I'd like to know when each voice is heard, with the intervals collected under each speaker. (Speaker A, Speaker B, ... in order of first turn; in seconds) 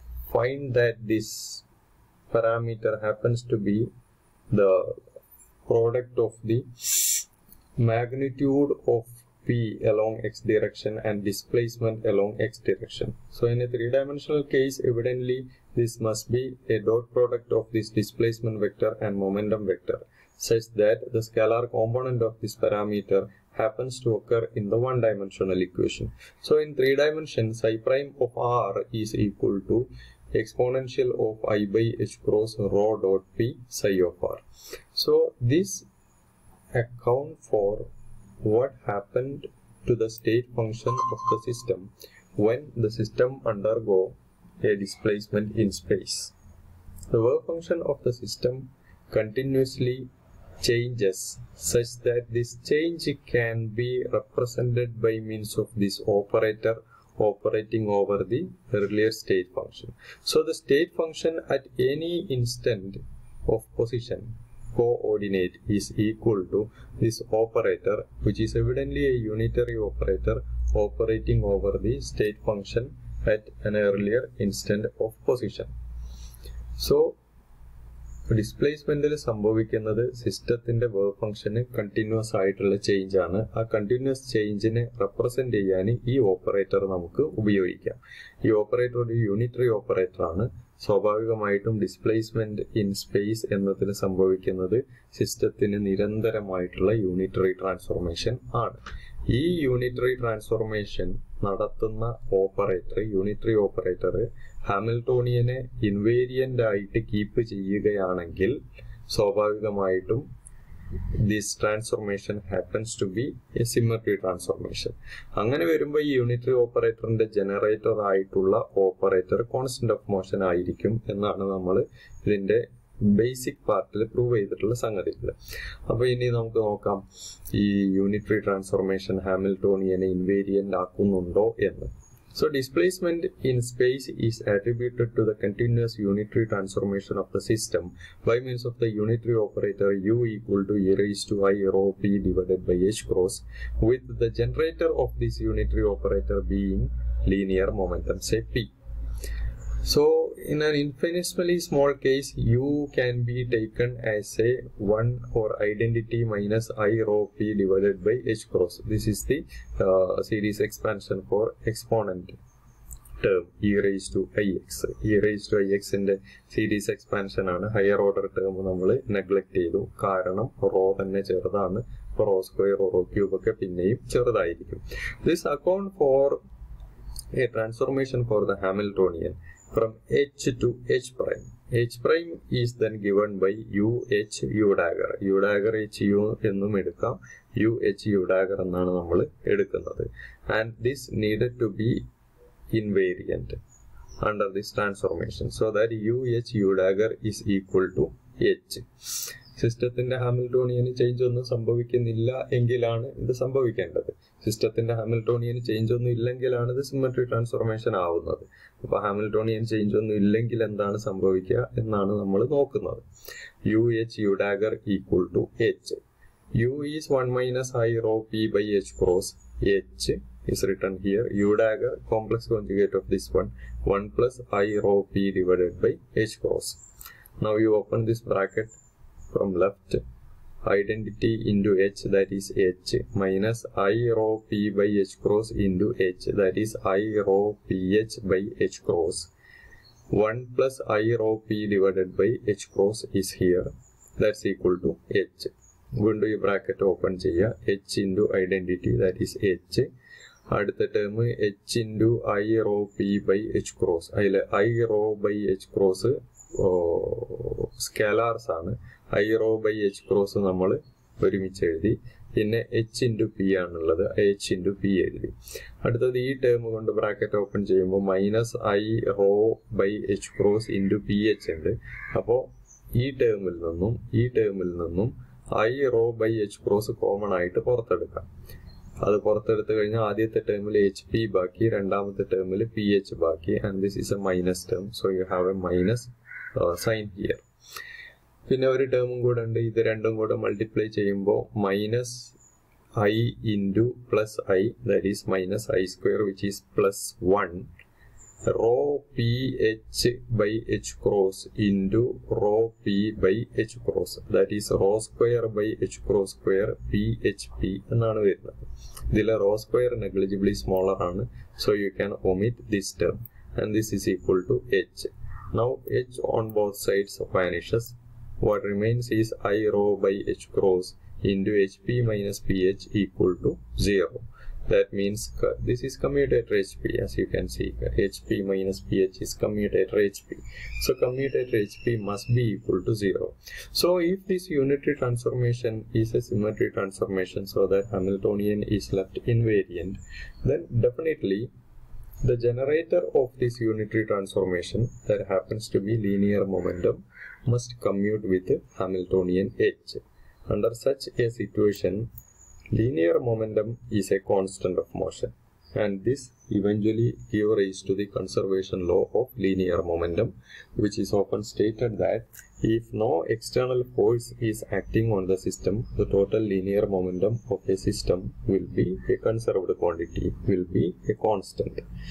Speaker A: 0.3-1.6, 2.3-3.9, 4.5-5.0, 5.7-7.2, 7.8-34.4, 34.9-35.9, 36.7-37.9, 38.4-46.3, 47.1-50.1, 50.6-75.7, 76.8-77.2, 78.3-110.2, 111.2-125.3, 125.9-148.7, 149.8-162.3, 163.2-176.4, 177.3-192.1, 192.7-193.6, 194.2-198.8, 199.6-213.0, 213.7-216.0, 216.5-226.8, 227.4-228.8, 229.3-230.0, 230.6-239.3, 240.1-249.9, 250.5-278.3, 279.0-287.4, 288.5-292.3, 293.0-297.7, 298.5-341.5, 342.2-352.1, 352.7-371.8